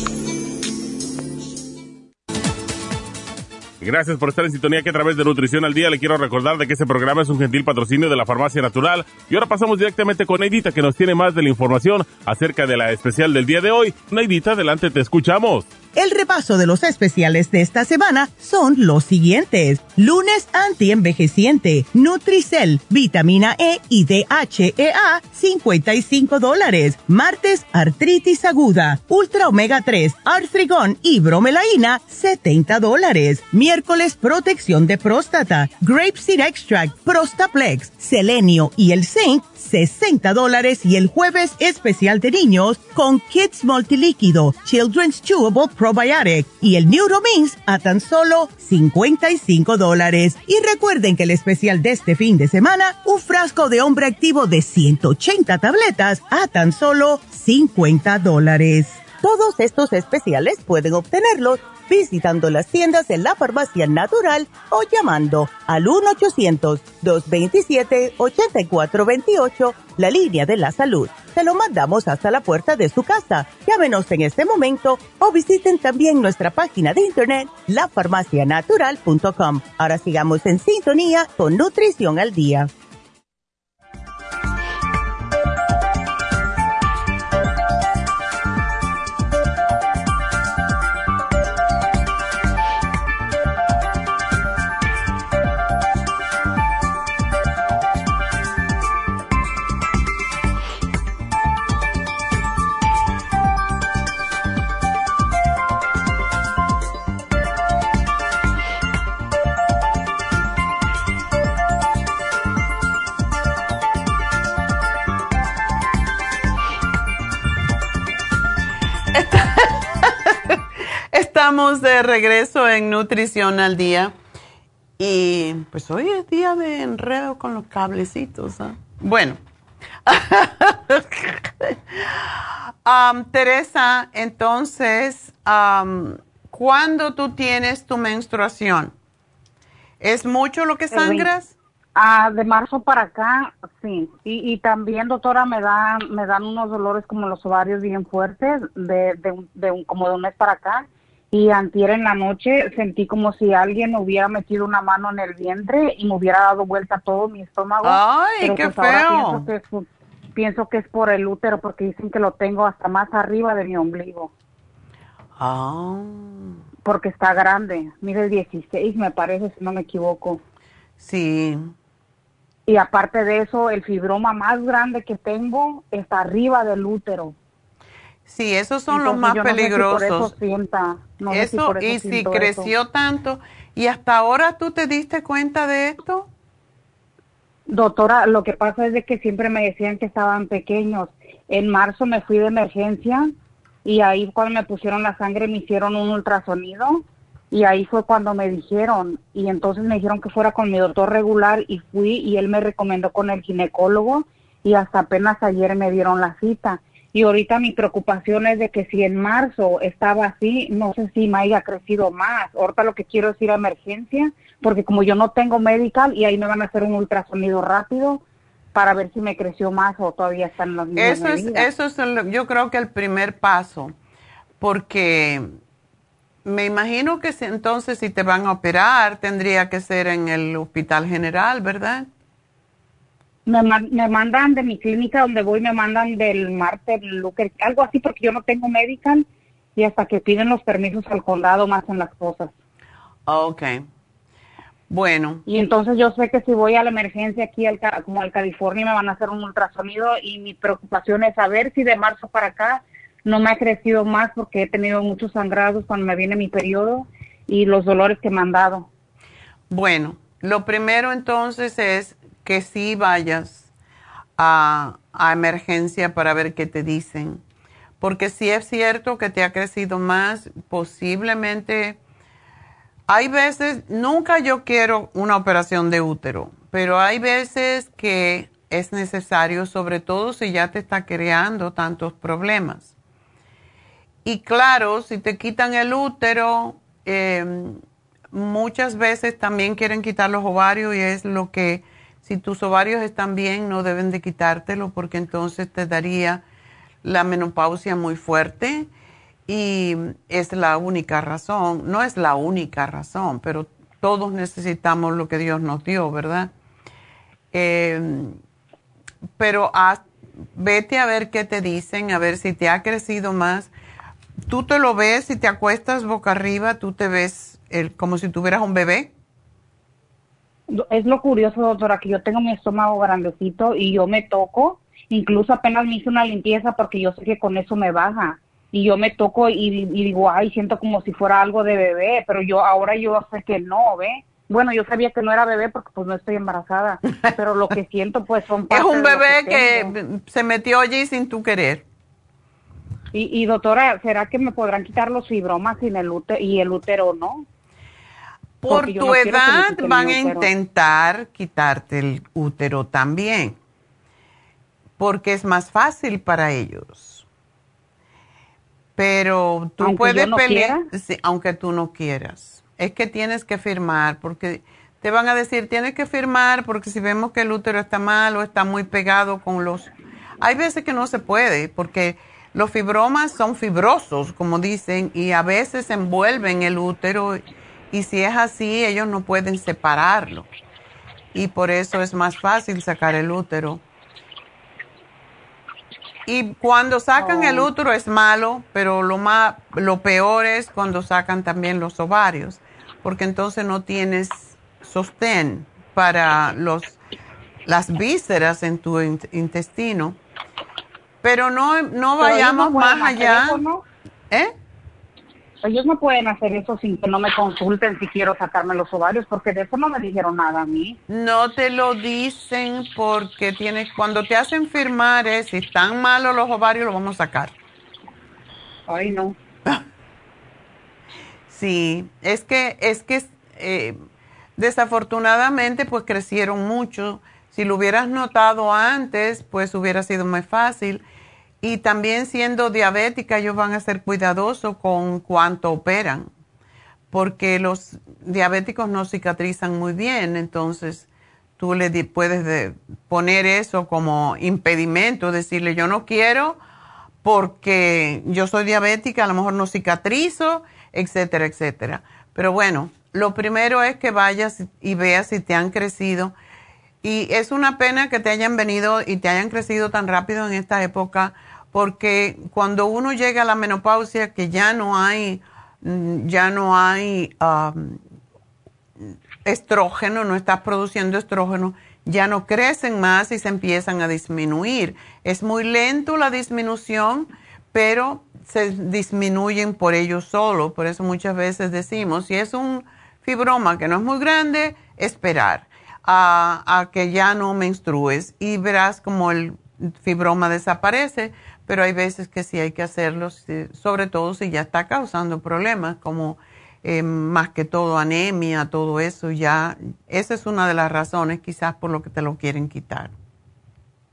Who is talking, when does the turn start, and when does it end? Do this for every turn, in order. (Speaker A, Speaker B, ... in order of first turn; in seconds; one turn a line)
Speaker A: 3.8-15.7
Speaker B: 15.9-82.7
Speaker C: 119.1-120.6
Speaker C: 121.1-124.1
Speaker C: 125.0-129.4
Speaker C: 130.1-138.9
Speaker C: 140.0-141.5
Speaker D: 140.9-141.3
Speaker D: 141.9-164.3
Speaker C: 157.8-159.5
Speaker C: 165.4-166.5
Speaker D: 166.8-170.4
Speaker C: 171.0-171.7
Speaker D: 172.7-177.3
Speaker C: 178.2-180.3
Speaker D: 178.9-182.7
Speaker C: 181.3-186.3
Speaker D: 187.7-193.3
Speaker D: 193.8-218.2
Speaker D: 218.7-221.7
Speaker C: 220.9-223.9
Speaker C: 224.6-225.5
Speaker C: 226.4-232.1
Speaker D: 233.4-242.5
Speaker C: 243.3-243.8
Speaker C: 244.9-245.4
Speaker D: 245.5-258.9
Speaker C: 259.7-263.7
Speaker C: 264.4-267.4
Speaker C: 268.0-272.0
Speaker C: 273.1-282.9
Speaker C: 284.2-287.8
Speaker C: 288.3-296.4
Speaker C: 297.0-298.9
Speaker C: 299.5-306.5
Speaker C: 307.5-308.4
Speaker C: 309.4-310.0
Speaker C: 310.5-313.7
Speaker C: 314.5-319.1
Speaker D: 320.7-339.9
Speaker C: 338.7-341.8
Speaker D: 343.1-347.4
Speaker C: 348.6-353.6
Speaker D: 348.7-350.5
Speaker C: 355.0-357.2
Speaker C: 358.9-380.5
Speaker D: 359.8-360.9
Speaker C: 381.3-383.8
Speaker C: 386.3-397.0
Speaker D: 387.2-387.7
Speaker C: 397.6-400.2
Speaker C: 401.2-403.6
Speaker D: 402.2-403.8
Speaker D: 405.6-411.0
Speaker C: 411.1-417.5
Speaker D: 418.9-419.4
Speaker C: 421.5-423.9
Speaker C: 424.6-431.0
Speaker C: 431.6-436.3
Speaker C: 437.1-441.1
Speaker C: 441.6-446.6
Speaker C: 447.2-456.3
Speaker C: 457.0-468.0
Speaker C: 469.4-503.1